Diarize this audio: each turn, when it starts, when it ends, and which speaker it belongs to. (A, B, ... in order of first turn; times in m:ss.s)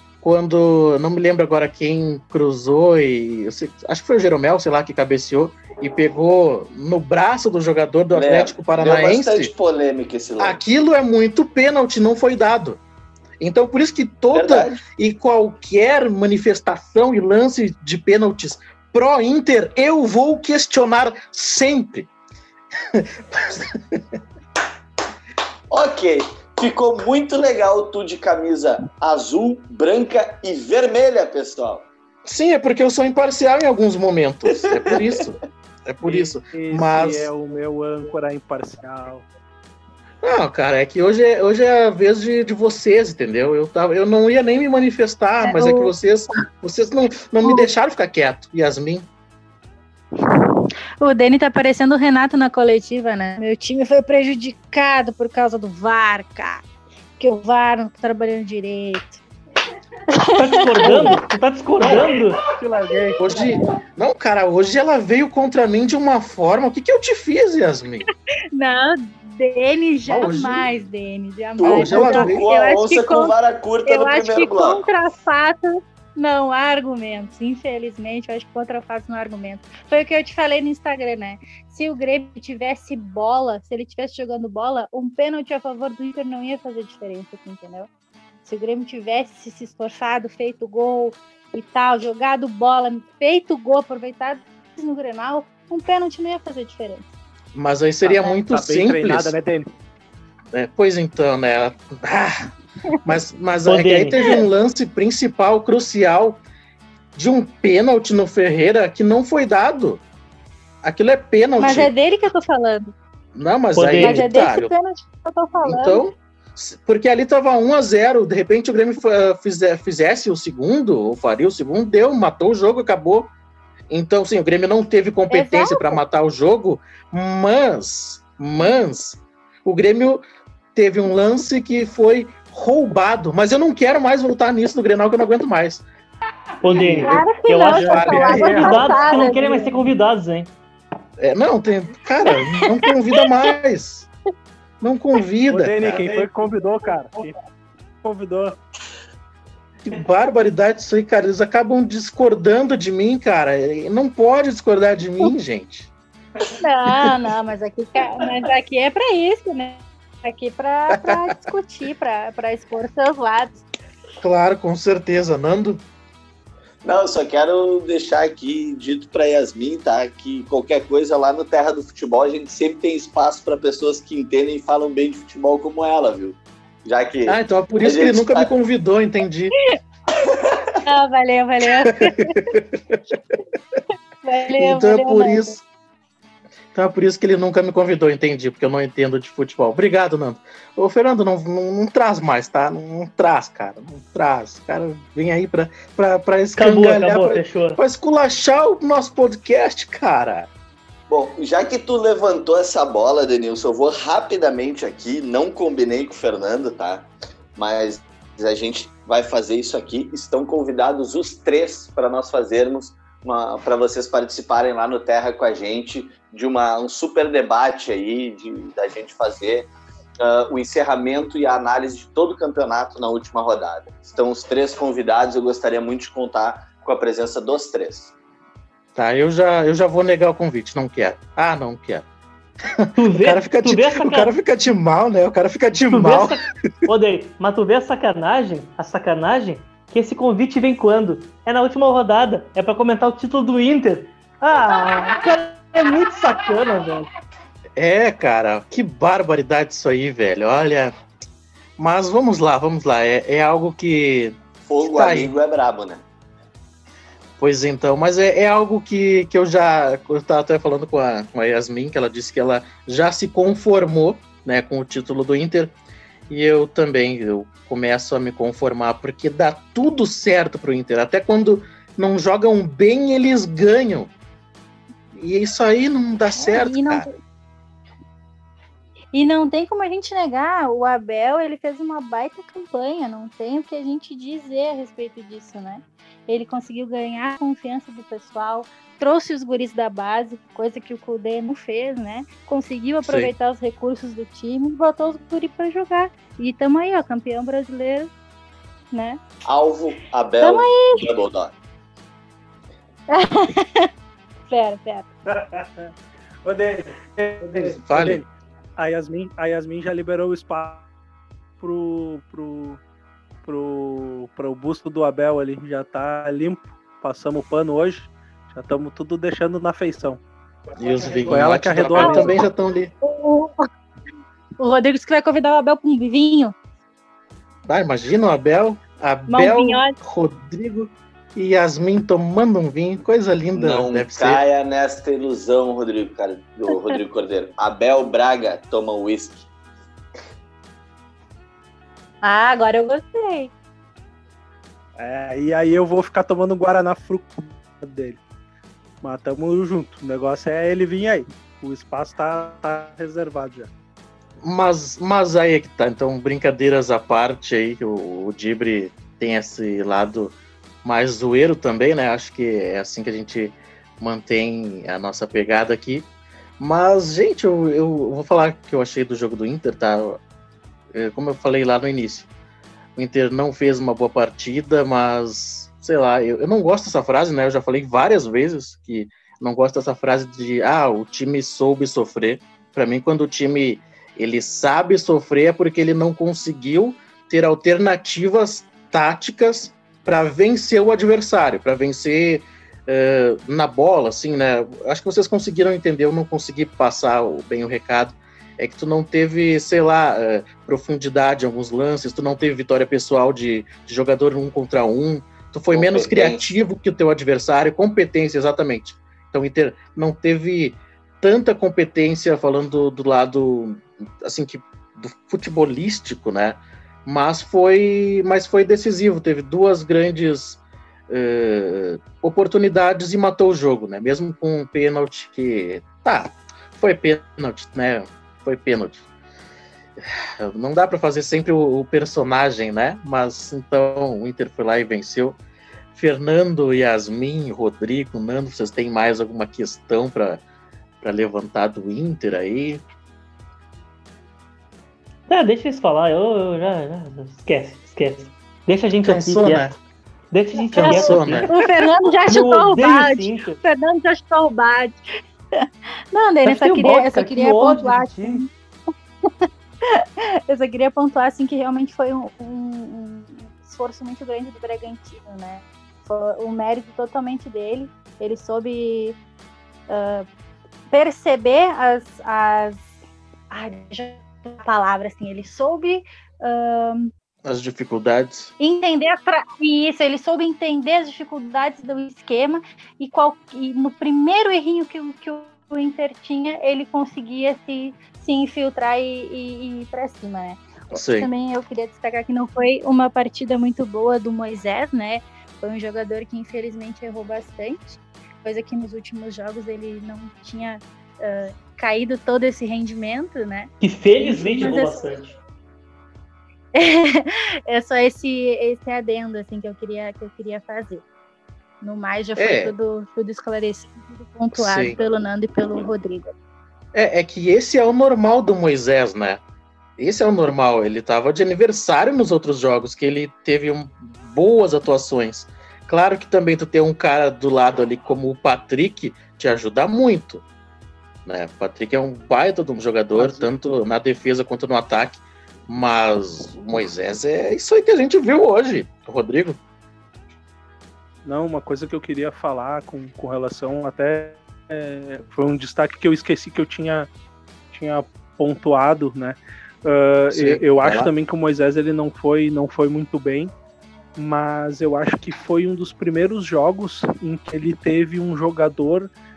0:00.2-0:09.5 A
0:08.1-0:10.6 B
0:10.4-0:12.8 A
0:13.4-0:22.1 A
0:14.3-0:14.8 B
0:22.9-0:24.0 A
0:25.7-0:31.9 B
0:32.2-0:37.3 A
0:34.7-0:35.3 B
0:36.0-0:39.2 C
0:40.2-0:49.1 A
0:45.4-0:45.9 D
0:51.0-0:56.6 D
0:57.2-0:59.2 D
1:00.1-1:00.8 D
1:00.3-1:02.4 E
1:00.8-1:01.1 A
1:01.8-1:02.1 A
1:01.8-1:03.3 C
1:03.2-1:08.0 A
1:08.5-1:13.3 D
1:10.0-1:10.7 A
1:11.6-1:14.8 B
1:11.6-1:12.4 A
1:13.8-1:27.9 D
1:28.4-1:37.1 D
1:37.5-1:39.4 A
1:38.0-1:39.7 C
1:40.5-1:42.5 A
1:43.0-1:46.4 A
1:43.6-1:44.3 E
1:47.1-1:50.0 A
1:50.8-1:51.9 A
1:51.6-1:52.9 D
1:53.3-1:54.7 A
1:53.8-1:54.2 E
1:54.0-1:56.1 D
1:55.6-2:03.3 A
2:03.9-2:10.2 A
2:05.3-2:06.0 D
2:10.7-2:15.8 A
2:16.6-2:20.5 E
2:16.7-2:17.2 C
2:17.0-2:19.8 D
2:17.7-2:18.8 A
2:17.8-2:19.1 C
2:21.2-2:24.1 A
2:22.3-2:23.2 D
2:24.8-2:26.2 A
2:25.5-2:27.3 C
2:28.0-2:28.6 C
2:29.8-2:35.9 A
2:36.6-2:43.6 D
2:44.2-2:45.8 A
2:46.8-2:58.5 B
2:57.3-2:59.5 A
3:00.2-3:00.6 B
3:00.8-3:02.4 D
3:02.2-3:03.2 A
3:04.2-3:05.5 D
3:04.6-3:05.6 A
3:06.7-3:20.5 A
3:16.6-3:17.8 E
3:21.1-3:39.7 B
3:40.2-3:48.1 B
3:48.9-3:52.0 A
3:52.8-3:56.4 A
3:52.9-3:54.3 E
3:55.9-4:07.1 E
4:07.8-4:10.9 A
4:11.8-4:15.3 A
4:14.6-4:16.0 B
4:17.4-4:25.7 A
4:26.3-4:34.1 A
4:35.1-4:37.1 A
4:36.5-4:37.1 D
4:39.1-4:58.1 D
4:53.0-4:53.3 A
4:58.9-4:59.2 D
4:59.4-5:01.5 B
5:00.4-5:01.0 D
5:03.1-5:03.9 D
5:04.5-5:05.0 D
5:05.3-5:05.9 C
5:06.4-5:10.8 C
5:07.6-5:08.2 A
5:11.6-5:12.8 C
5:13.4-5:20.2 C
5:20.8-5:22.9 A
5:21.2-5:22.4 C
5:22.0-5:22.4 D
5:23.0-5:23.6 D
5:24.6-5:26.5 D
5:27.7-5:34.4 A
5:29.3-5:29.9 D
5:33.6-5:39.5 B
5:42.2-5:43.5 D
5:45.0-5:48.2 C
5:49.0-5:53.7 C
5:54.4-6:06.1 A
6:06.6-6:10.2 A
6:10.9-6:12.3 A
6:13.0-7:09.0 A
6:45.7-6:46.5 B
7:10.0-7:15.4 A
7:15.9-7:20.4 A
7:21.0-7:22.8 A
7:25.3-7:29.7 E
7:29.0-7:29.7 A
7:30.3-7:31.6 E
7:30.7-7:31.5 A
7:30.8-7:35.0 D
7:32.3-7:33.6 E
7:35.6-7:38.5 D
7:36.4-7:38.4 E
7:39.8-7:49.2 D
7:49.9-7:50.2 D
7:50.9-7:52.8 D
7:53.5-7:57.1 D
7:57.4-7:58.5 A
7:58.6-8:25.1 D
8:10.9-8:11.3 A
8:23.8-8:25.4 E
8:26.7-8:31.0 D
8:31.8-8:36.3 D
8:32.4-8:32.7 A
8:34.5-8:34.9 A
8:36.9-8:39.4 A
8:40.0-8:50.4 A
8:51.2-8:59.6 A
8:53.2-8:53.5 C
9:01.2-9:07.1 C
9:07.7-9:13.5 C
9:10.3-9:11.1 A
9:14.2-9:19.1 C